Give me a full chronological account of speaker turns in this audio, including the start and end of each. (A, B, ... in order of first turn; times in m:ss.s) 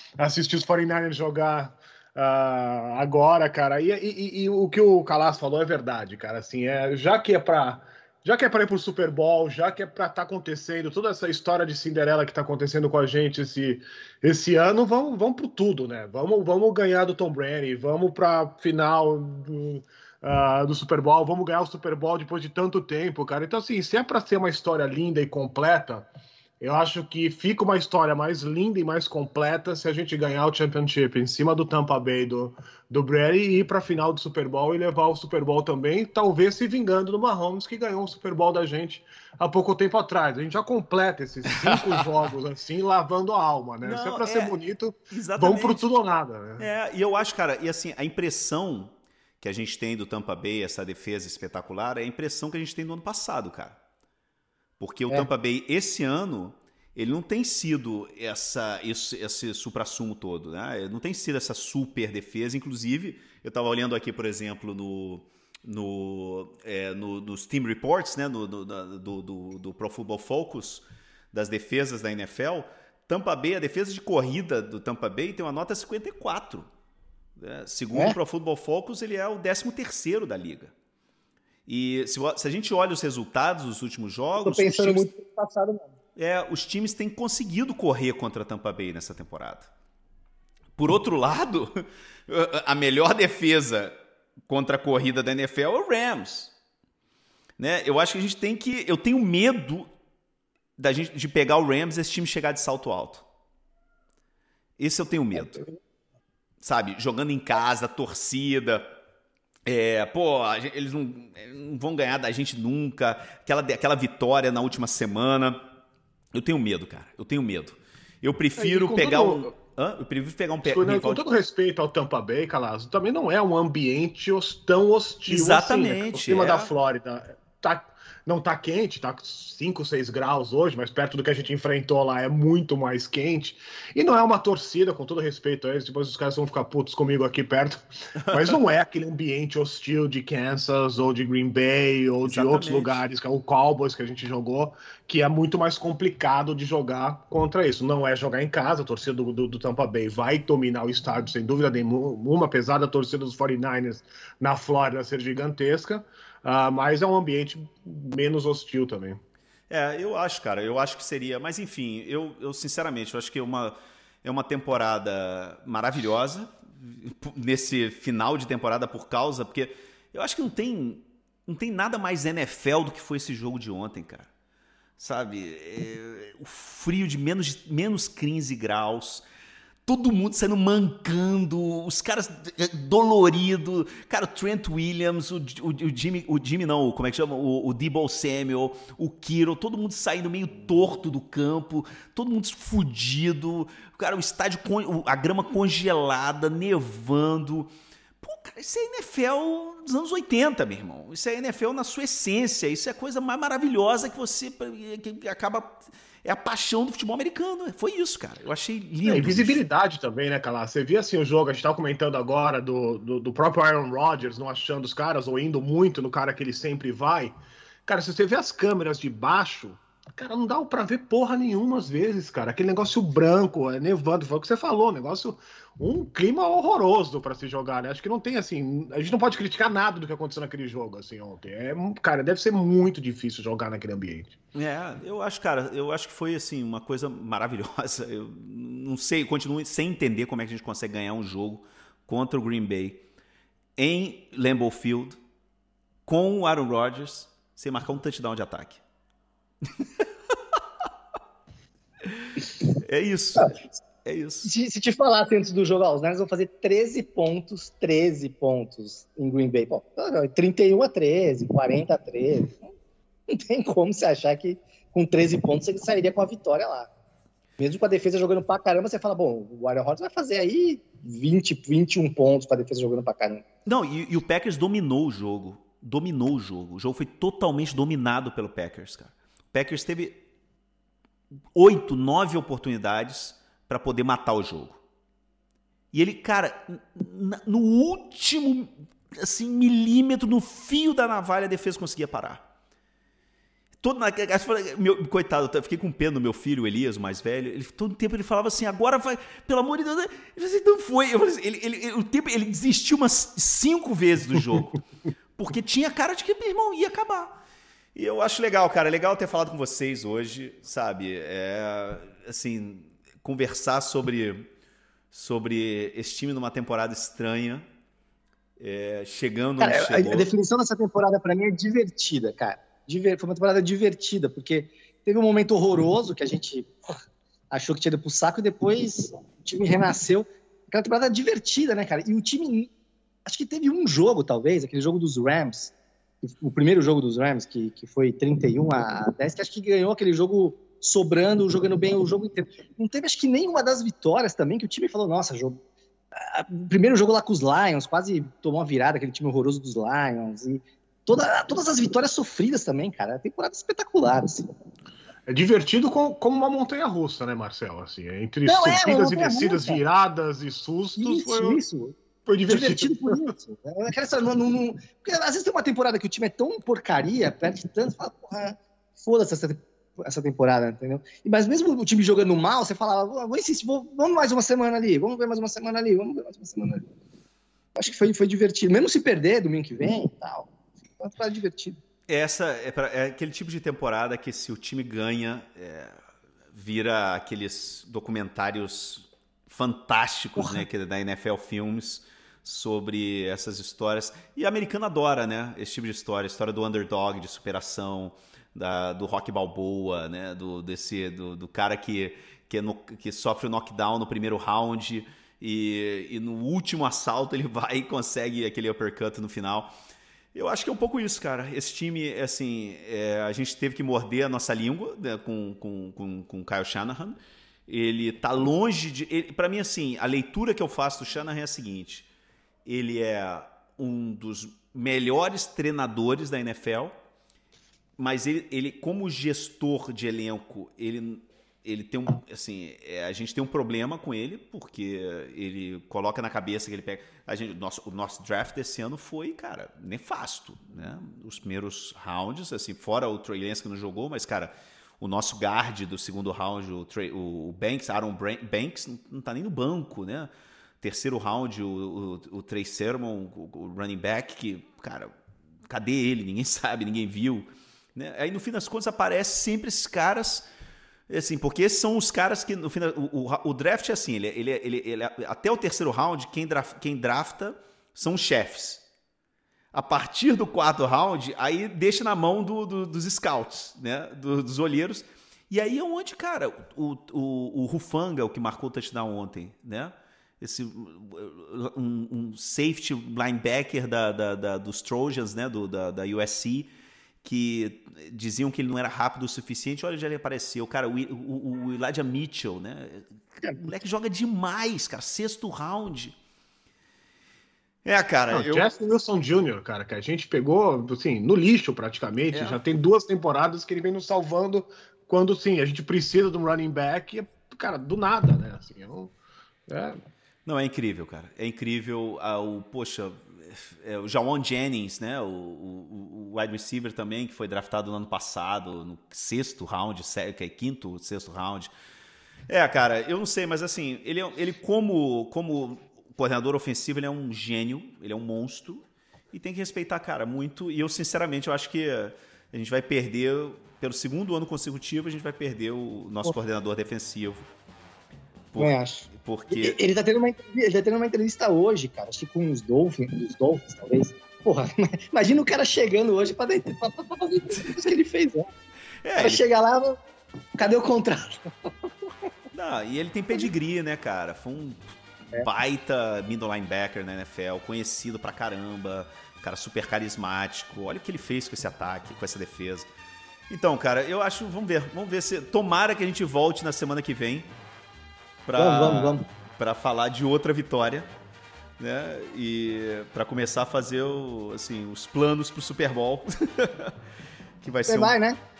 0:00.2-0:26.1 A
0:26.6-0:46.6 A
0:41.7-0:42.0 B
0:43.8-0:44.5 B
0:45.1-0:45.9 B
0:46.6-0:53.8 B
0:54.8-1:16.7 B
1:17.4-1:20.7 B
1:21.7-1:25.1 B
1:24.4-1:25.9 C
1:26.2-1:29.7 B
1:30.8-1:33.9 B
1:34.5-1:36.5 B
1:37.6-1:39.9 B
1:40.8-1:43.2 B
1:44.8-1:45.6 B
1:46.6-1:48.9 B
1:49.6-1:55.6 B
1:56.3-2:01.2 B
1:58.6-1:59.5 A
2:00.6-2:39.2 A
2:05.3-2:06.7 B
2:18.2-2:18.6 B
2:22.2-2:23.0 B
2:39.7-2:54.3 B
2:55.0-2:59.2 B
2:59.8-3:17.7 B
3:18.2-3:29.6 B
3:29.0-3:54.4 A
3:54.5-4:03.0 B
4:03.8-4:05.2 B
4:06.0-4:08.8 B
4:09.8-4:10.0 B
4:12.0-4:14.5 B
4:14.4-4:22.7 C
4:23.3-4:26.9 C
4:27.6-4:33.4 C
4:33.6-4:40.2 B
4:41.5-4:44.8 B
4:45.9-4:52.4 B
4:53.8-5:04.8 B
5:05.4-5:07.4 B
5:07.9-5:14.5 B
5:15.1-5:17.6 B
5:18.6-5:20.3 B
5:19.6-5:27.0 C
5:27.5-5:32.7 C
5:33.2-5:45.6 C
5:46.1-5:54.5 C
5:55.3-6:01.6 A
5:58.4-5:59.8 C
6:01.0-6:16.8 C
6:02.3-6:03.3 A
6:17.8-6:21.8 C
6:22.1-6:26.0 B
6:26.5-6:49.7 B
6:50.3-7:02.1 B
7:02.6-7:06.9 B
7:08.0-7:30.3 B
7:30.8-7:35.1 B
7:35.7-7:40.5 B
7:41.1-7:48.8 B
7:49.7-8:06.7 B
8:07.2-8:16.2 B
8:17.8-8:18.7 B
8:18.3-8:29.1 A
8:22.3-8:22.6 B
8:29.7-8:30.0 A
8:30.4-8:41.7 B
8:42.5-8:57.5 B
8:58.5-8:59.8 B
8:58.6-9:08.5 C
9:09.0-9:09.4 B
9:09.2-9:10.0 C
9:10.6-9:11.7 C
9:12.5-9:22.9 B
9:23.5-9:27.5 B
9:28.4-9:31.1 B
9:28.6-9:29.2 C
9:31.8-9:36.9 B
9:37.6-9:38.1 B
9:37.9-9:38.4 C